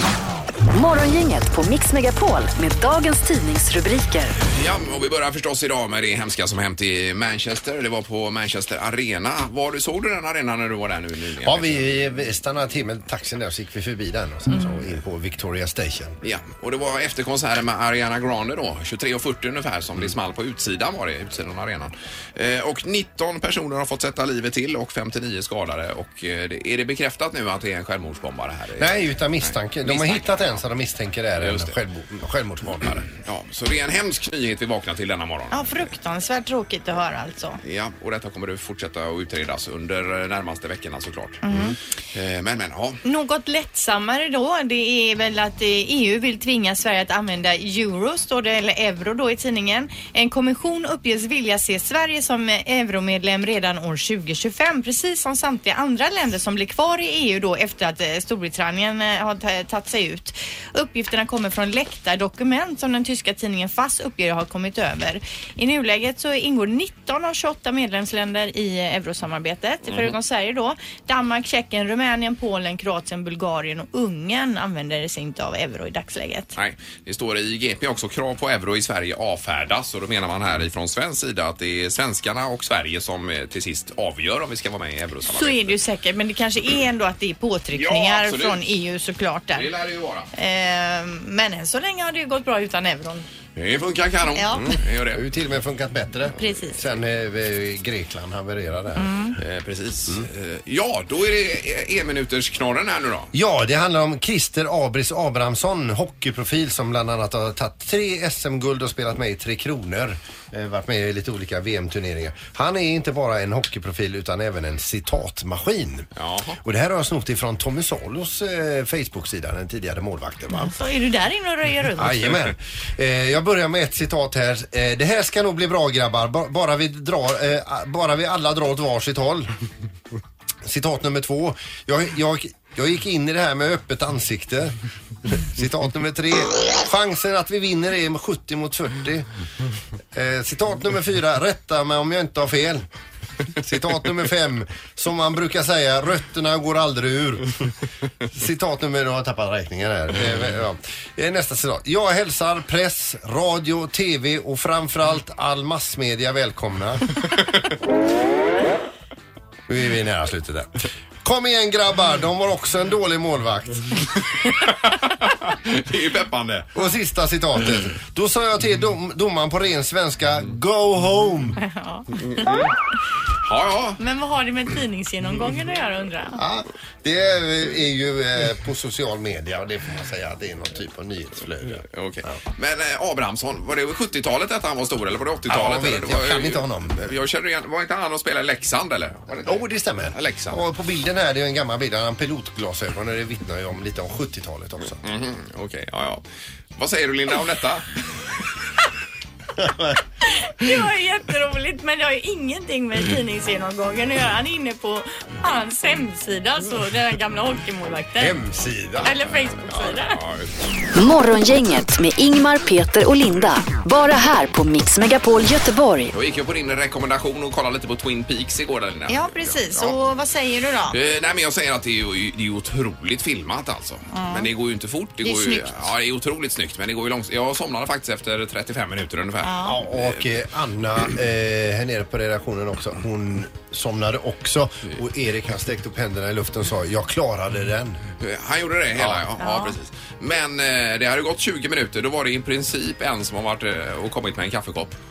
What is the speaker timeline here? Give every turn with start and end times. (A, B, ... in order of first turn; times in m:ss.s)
0:00.7-0:04.4 A
0:04.5-0:11.9 B
0:11.4-0:16.2 C
0:16.2-0:30.6 B
0:28.8-0:33.0 C
0:31.4-0:31.7 B
0:32.9-0:35.9 B
0:35.5-0:37.6 D
0:37.6-0:41.6 B
0:41.4-0:41.8 D
0:42.1-0:43.0 B
0:43.0-1:16.5 D
1:09.9-1:10.1 B
1:16.6-1:25.8 B
1:25.3-1:29.7 D
1:27.7-1:28.6 B
1:29.5-1:30.3 B
1:30.3-1:33.3 D
1:33.6-1:35.2 B
1:34.4-1:34.8 D
1:34.6-1:39.3 C
1:36.4-1:36.8 D
1:39.0-1:39.4 D
1:39.4-1:43.3 B
1:43.3-1:56.1 C
1:56.2-1:56.6 B
1:56.6-2:00.8 C
2:00.6-2:02.4 D
2:02.0-2:09.5 C
2:10.6-2:14.8 C
2:15.3-2:19.3 C
2:20.1-2:22.9 C
2:23.6-2:27.7 C
2:28.3-2:37.1 C
2:39.7-2:40.7 C
2:41.2-2:44.0 C
2:44.6-2:46.8 B
2:46.8-2:51.6 C
2:51.6-2:52.1 D
2:52.2-2:52.7 B
2:53.4-2:54.0 B
2:54.0-2:56.4 D
2:56.4-3:01.8 C
3:01.9-3:10.6 B
3:05.5-3:07.1 C
3:09.4-3:15.0 C
3:15.0-3:16.2 B
3:16.8-3:17.9 B
3:19.6-3:20.0 C
3:20.2-3:28.4 D
3:28.2-3:29.9 C
3:29.0-3:30.2 D
3:30.1-3:30.5 B
3:31.0-3:36.1 A
3:36.1-3:40.0 B
3:39.1-3:41.0 D
3:40.9-3:50.4 B
3:44.1-3:44.5 D
3:45.2-3:45.7 D
3:49.4-3:49.8 D
3:49.6-3:58.0 C
3:58.2-4:05.0 B
3:59.0-3:59.2 C
3:59.4-3:59.8 D